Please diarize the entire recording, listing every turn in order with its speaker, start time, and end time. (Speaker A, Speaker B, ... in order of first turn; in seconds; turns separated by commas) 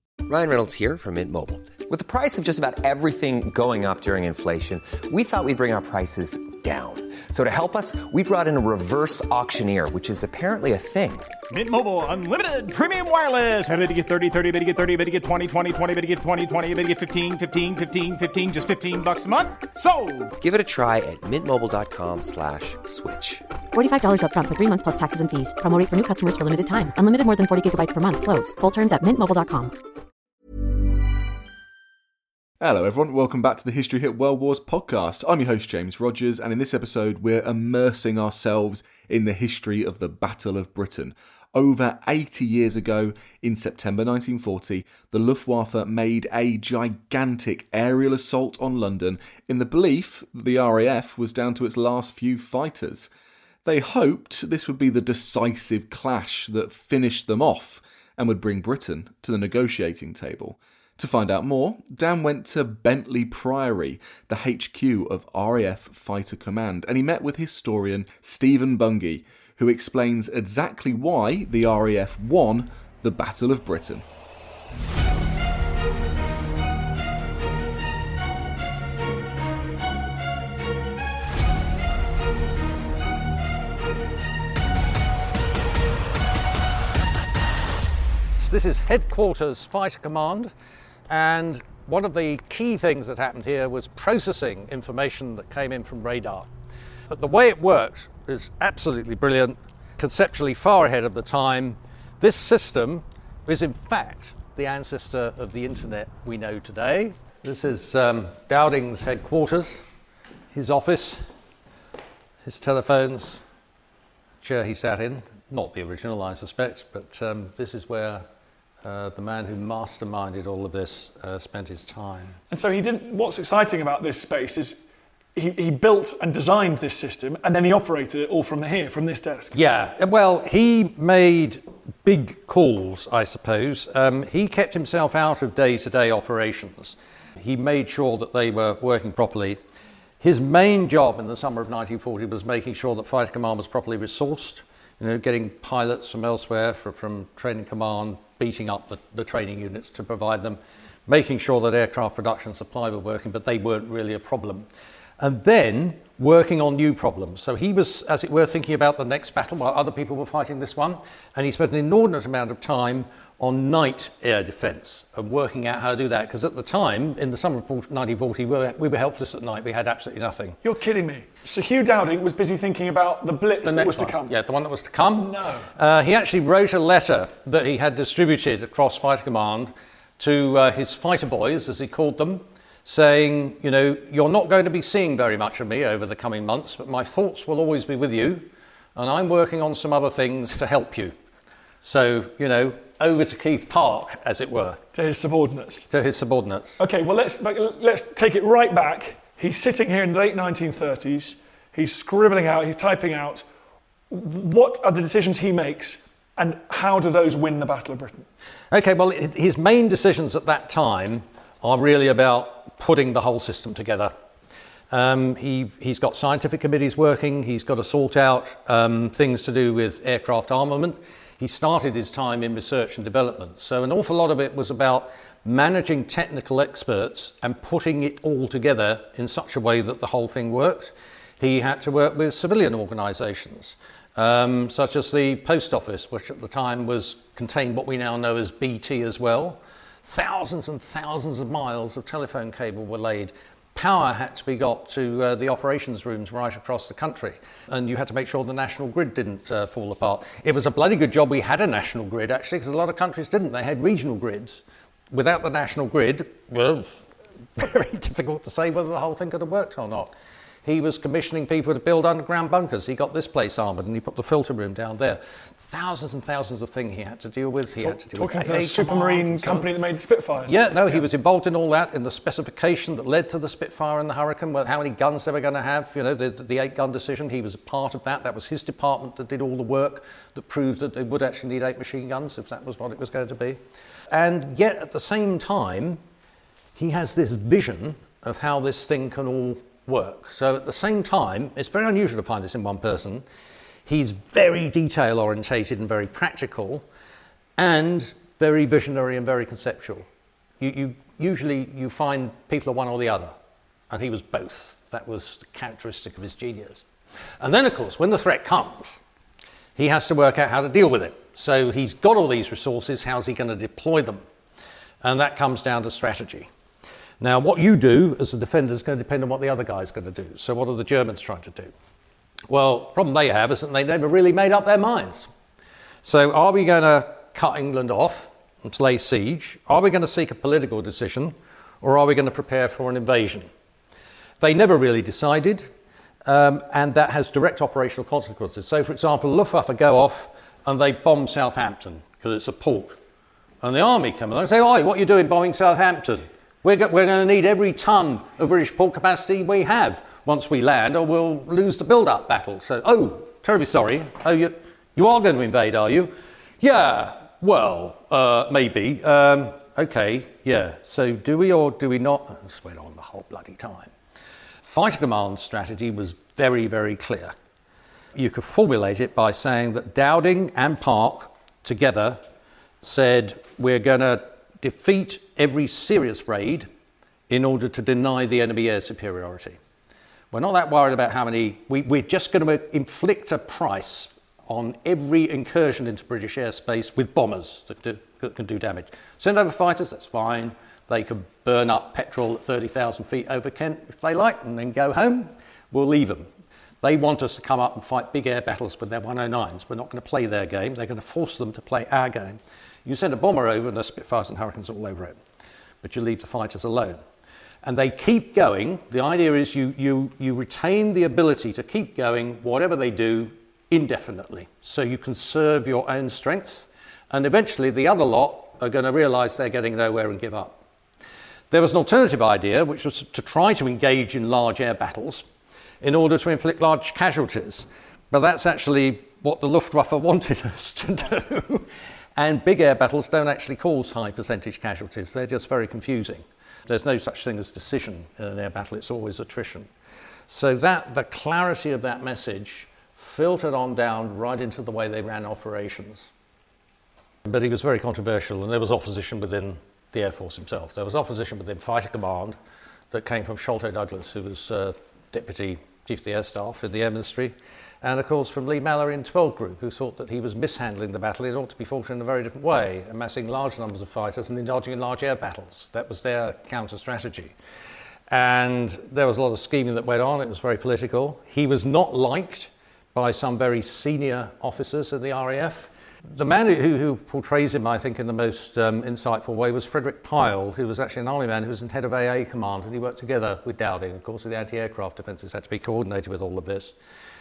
Speaker A: 0.3-11.3, Speaker B: 11.5-20.3, Speaker A: 20.4-23.4, Speaker C: 23.7-29.7, Speaker D: 32.6-53.1, Speaker D: 53.6-74.0, Speaker E: 88.4-90.5, Speaker E: 91.1-96.5, Speaker E: 97.1-109.8, Speaker E: 110.5-111.2, Speaker E: 112.5-113.4, Speaker E: 114.4-118.2, Speaker E: 118.8-122.4, Speaker F: 122.5-129.6, Speaker E: 129.5-139.6, Speaker E: 140.2-154.7, Speaker E: 155.2-170.6, Speaker F: 170.6-174.4, Speaker E: 173.6-191.1, Speaker F: 175.2-175.7, Speaker E: 191.8-194.8, Speaker F: 194.9-195.9, Speaker E: 195.9-196.8, Speaker F: 196.8-203.5, Speaker F: 204.1-208.3, Speaker E: 208.7-214.1, Speaker E: 214.9-257.0, Speaker E: 257.6-260.1, Speaker E: 260.6-269.7, Speaker F: 267.8-271.0, Speaker E: 270.5-283.6, Speaker E: 284.1-286.0, Speaker E: 286.8-293.2, Speaker E: 293.9-296.8, Speaker E: 297.6-300.1, Speaker E: 300.6-303.3, Speaker E: 303.9-306.9, Speaker E: 307.4-309.0, Speaker E: 309.8-314.2, Speaker E: 315.0-316.5, Speaker E: 317.2-321.7, Speaker E: 322.5-325.3, Speaker E: 326.0-333.5, Speaker E: 334.4-335.7, Speaker E: 336.2-343.0, Speaker E: 343.6-363.9, Speaker E: 364.6-367.4, Speaker E: 368.1-372.2, Speaker E: 372.8-376.7, Speaker E: 377.3-379.6, Speaker E: 380.3-396.3, Speaker E: 396.8-405.2, Speaker E: 405.8-407.0, Speaker E: 407.6-420.6, Speaker E: 421.5-425.2, Speaker E: 425.8-439.7, Speaker E: 440.3-446.1, Speaker E: 447.2-452.4, Speaker E: 452.9-467.4, Speaker E: 468.1-486.7